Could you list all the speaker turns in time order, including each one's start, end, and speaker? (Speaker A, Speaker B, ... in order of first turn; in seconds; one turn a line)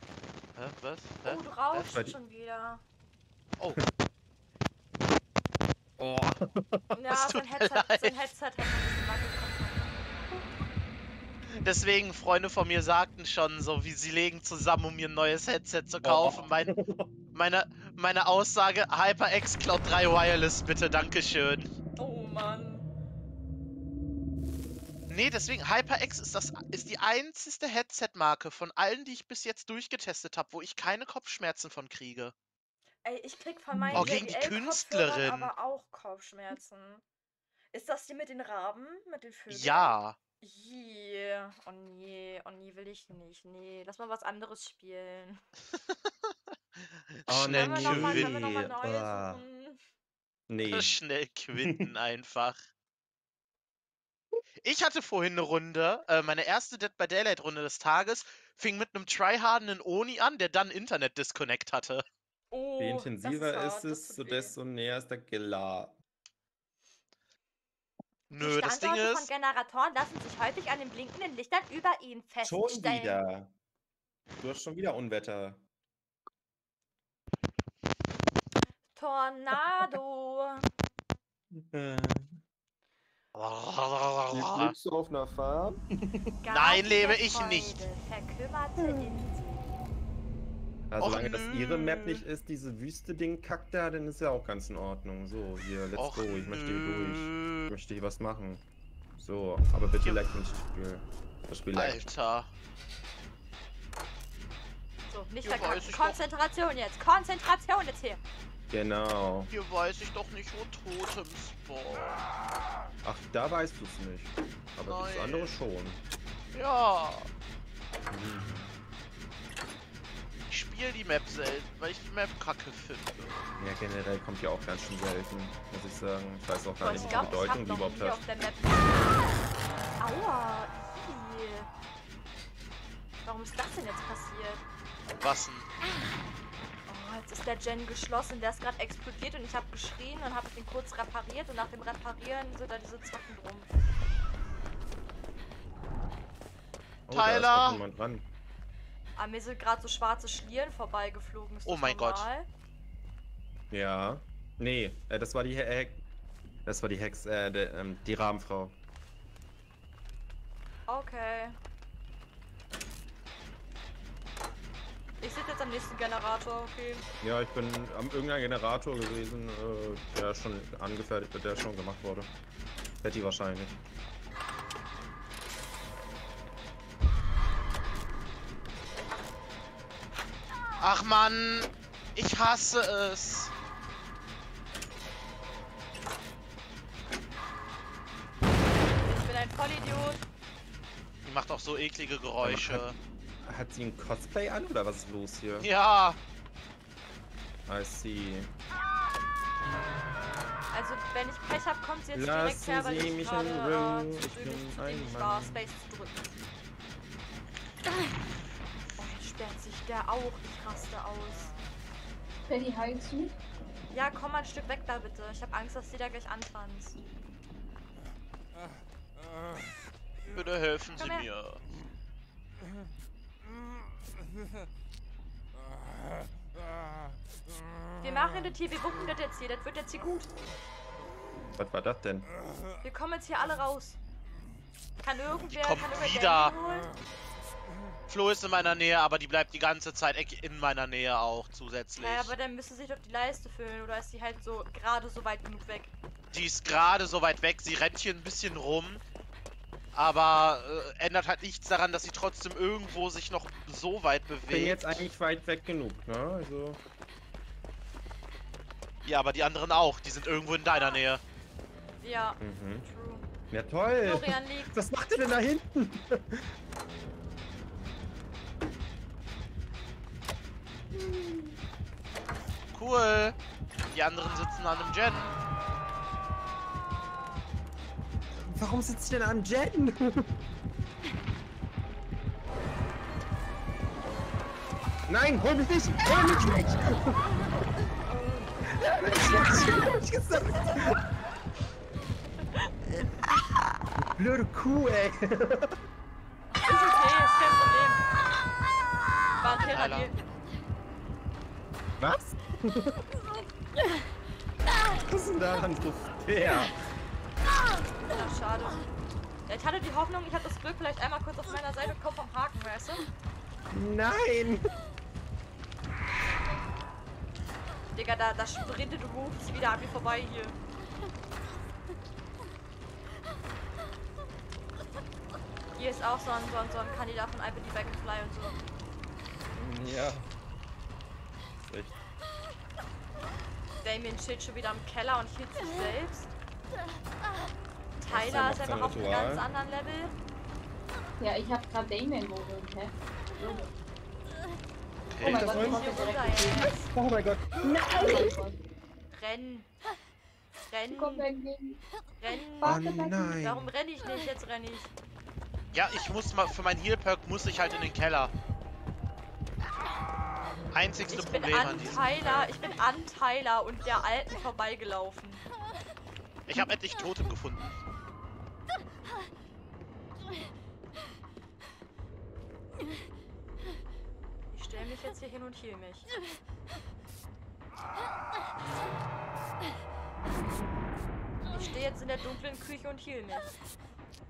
Speaker A: 0.6-1.4
Speaker B: 1.2-2.8
Speaker C: 1.7-2.1
Speaker C: 6.0-6.9
Speaker B: 6.9-10.0
Speaker A: 7.1-8.1
Speaker A: 11.5-16.7
Speaker C: 16.0-17.1
Speaker A: 17.3-21.7
Speaker B: 22.0-22.9
Speaker A: 25.1-32.3
Speaker B: 33.0-37.0
Speaker C: 33.8-34.2
Speaker A: 33.9-35.5
Speaker B: 37.7-45.4
Speaker A: 39.5-40.2
Speaker A: 47.2-48.4
Speaker C: 47.3-49.4
Speaker B: 47.5-49.8
Speaker C: 50.5-50.9
Speaker A: 50.6-52.6
Speaker C: 51.6-51.9
Speaker A: 54.6-62.0
Speaker B: 62.5-64.6
Speaker C: 62.8-66.0
Speaker A: 68.3-69.3
Speaker B: 68.4-73.2
Speaker C: 72.4-73.5
Speaker C: 74.4-75.6
Speaker B: 78.9-80.7
Speaker C: 81.5-82.4
Speaker A: 83.3-84.7
Speaker C: 84.3-86.3
Speaker B: 86.4-89.7
Speaker A: 86.5-87.8
Speaker C: 88.8-89.3
Speaker C: 90.9-98.6
Speaker A: 91.0-92.2
Speaker A: 96.0-97.7
Speaker C: 99.2-102.0
Speaker A: 101.7-102.5
Speaker B: 105.1-108.2
Speaker A: 105.4-106.2
Speaker C: 108.7-109.5
Speaker A: 109.5-112.2
Speaker C: 113.0-116.0
Speaker A: 114.9-115.5
Speaker A: 116.5-117.3
Speaker C: 118.1-118.7
Speaker A: 120.5-123.5
Speaker C: 123.6-128.2
Speaker B: 126.8-129.3
Speaker A: 126.9-127.4
Speaker B: 130.0-131.7
Speaker B: 133.2-134.6
Speaker A: 135.2-135.7
Speaker B: 136.9-143.7
Speaker C: 147.1-148.2
Speaker A: 147.1-147.8
Speaker B: 149.2-152.5
Speaker A: 151.7-152.3
Speaker C: 153.7-156.0
Speaker C: 156.7-158.8
Speaker B: 160.9-161.6
Speaker B: 165.2-167.1
Speaker C: 167.2-172.3
Speaker C: 173.0-173.8
Speaker A: 180.8-183.5
Speaker B: 189.0-190.2
Speaker A: 191.2-192.9
Speaker C: 192.4-192.8
Speaker C: 193.4-195.7
Speaker A: 195.6-196.2
Speaker C: 197.7-198.5
Speaker B: 200.7-206.3
Speaker C: 202.1-205.6
Speaker B: 209.0-211.5
Speaker D: 212.5-213.3
Speaker B: 213.9-217.0
Speaker A: 220.3-221.6
Speaker B: 220.9-221.3
Speaker B: 228.0-230.3
Speaker C: 231.6-232.3
Speaker B: 232.8-234.0
Speaker B: 235.0-236.9
Speaker A: 235.4-236.6
Speaker A: 238.1-242.3
Speaker B: 242.0-245.9
Speaker A: 246.3-249.0
Speaker A: 249.9-255.0
Speaker C: 254.5-256.8
Speaker A: 259.0-261.2
Speaker B: 260.7-261.0
Speaker B: 262.0-263.2
Speaker C: 262.4-262.9
Speaker C: 263.5-266.5
Speaker B: 264.0-264.8
Speaker A: 272.7-273.4
Speaker A: 273.9-275.4
Speaker C: 278.3-280.3
Speaker C: 285.1-287.2
Speaker B: 288.1-288.6
Speaker C: 288.7-291.0
Speaker C: 294.1-295.8
Speaker B: 296.5-298.0
Speaker B: 299.4-300.1
Speaker A: 299.6-300.1
Speaker C: 302.0-303.0
Speaker C: 305.0-306.8
Speaker B: 308.1-308.9
Speaker B: 309.5-313.1
Speaker C: 313.7-314.7
Speaker B: 317.9-320.6
Speaker B: 325.7-328.6
Speaker C: 329.6-330.3
Speaker C: 331.6-331.9
Speaker B: 333.8-336.3
Speaker B: 338.0-340.1
Speaker C: 338.1-339.4
Speaker D: 341.2-343.7
Speaker A: 345.1-345.4
Speaker D: 345.2-346.7
Speaker C: 345.2-345.9
Speaker B: 345.4-346.9
Speaker C: 346.6-348.3
Speaker D: 347.9-348.6
Speaker B: 349.1-349.7
Speaker B: 350.7-351.2
Speaker D: 350.9-351.8
Speaker B: 352.2-352.8
Speaker D: 352.6-353.3
Speaker C: 352.6-353.7
Speaker B: 353.4-354.9
Speaker A: 355.7-358.3
Speaker A: 360.7-362.5
Speaker B: 361.1-365.4
Speaker A: 366.5-367.7
Speaker B: 374.5-376.1
Speaker B: 381.5-383.5